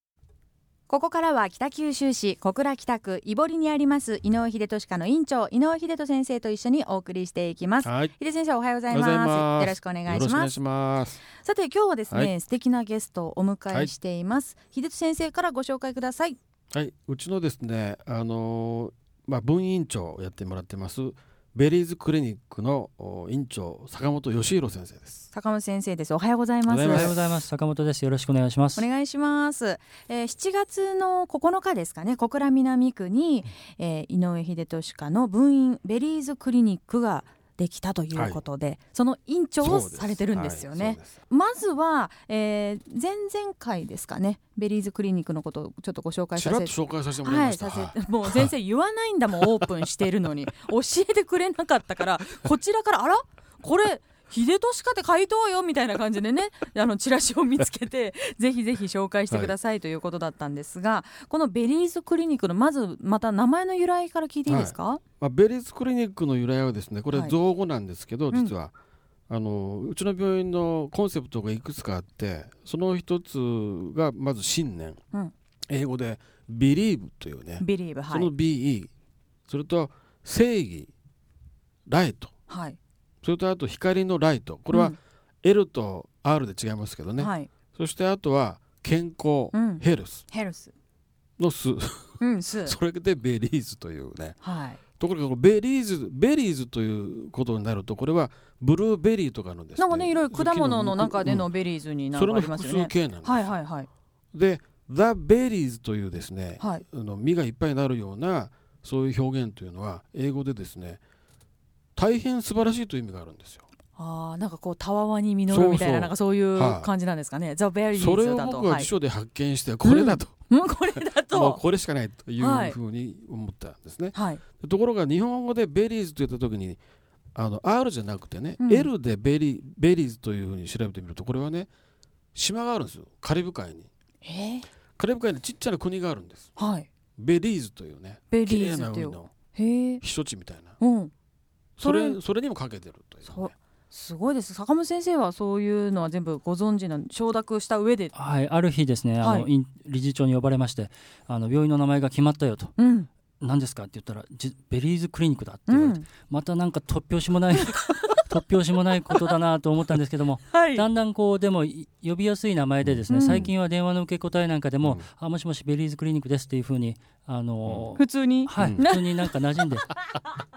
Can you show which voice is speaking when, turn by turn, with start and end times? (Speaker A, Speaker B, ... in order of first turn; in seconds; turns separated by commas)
Speaker A: 0.9-10.5, Speaker B: 7.8-8.1, Speaker B: 8.9-11.2, Speaker A: 11.4-16.4, Speaker B: 16.7-25.3, Speaker A: 25.3-27.1, Speaker B: 26.7-27.2, Speaker C: 26.8-28.9, Speaker A: 28.8-65.0, Speaker B: 38.1-38.4, Speaker B: 39.6-41.2, Speaker B: 46.4-48.5, Speaker B: 59.3-59.5, Speaker B: 64.5-68.7, Speaker B: 69.3-75.0, Speaker B: 75.7-78.9, Speaker A: 77.6-78.3, Speaker B: 79.5-80.9, Speaker B: 81.9-82.3, Speaker A: 82.5-82.8, Speaker B: 83.2-90.3, Speaker A: 84.7-85.0, Speaker A: 87.2-87.5, Speaker A: 89.5-90.7, Speaker B: 91.4-94.4, Speaker A: 92.2-92.8, Speaker A: 94.4-94.8, Speaker B: 95.0-101.5, Speaker A: 99.8-103.9, Speaker B: 102.1-103.6, Speaker B: 104.3-111.0, Speaker B: 112.0-113.6, Speaker A: 114.0-118.9, Speaker B: 115.5-116.9, Speaker B: 118.0-120.4, Speaker A: 119.8-121.6, Speaker B: 121.0-126.8, Speaker A: 122.4-122.8, Speaker A: 124.1-124.4, Speaker B: 127.3-131.7, Speaker A: 128.6-128.9, Speaker B: 132.3-133.9, Speaker A: 134.2-134.7, Speaker B: 135.0-136.5, Speaker A: 136.6-136.9, Speaker B: 137.2-139.3, Speaker A: 138.3-140.0, Speaker B: 140.0-140.8, Speaker A: 140.8-141.1, Speaker B: 141.8-143.5, Speaker A: 141.8-142.2, Speaker A: 143.3-148.1, Speaker C: 148.1-152.8, Speaker A: 149.2-149.5, Speaker A: 152.8-153.1, Speaker C: 153.4-169.9, Speaker A: 155.7-156.1, Speaker A: 157.9-158.2, Speaker A: 160.5-160.9, Speaker B: 162.8-163.5, Speaker A: 163.1-163.5, Speaker A: 168.0-169.2, Speaker B: 168.6-168.9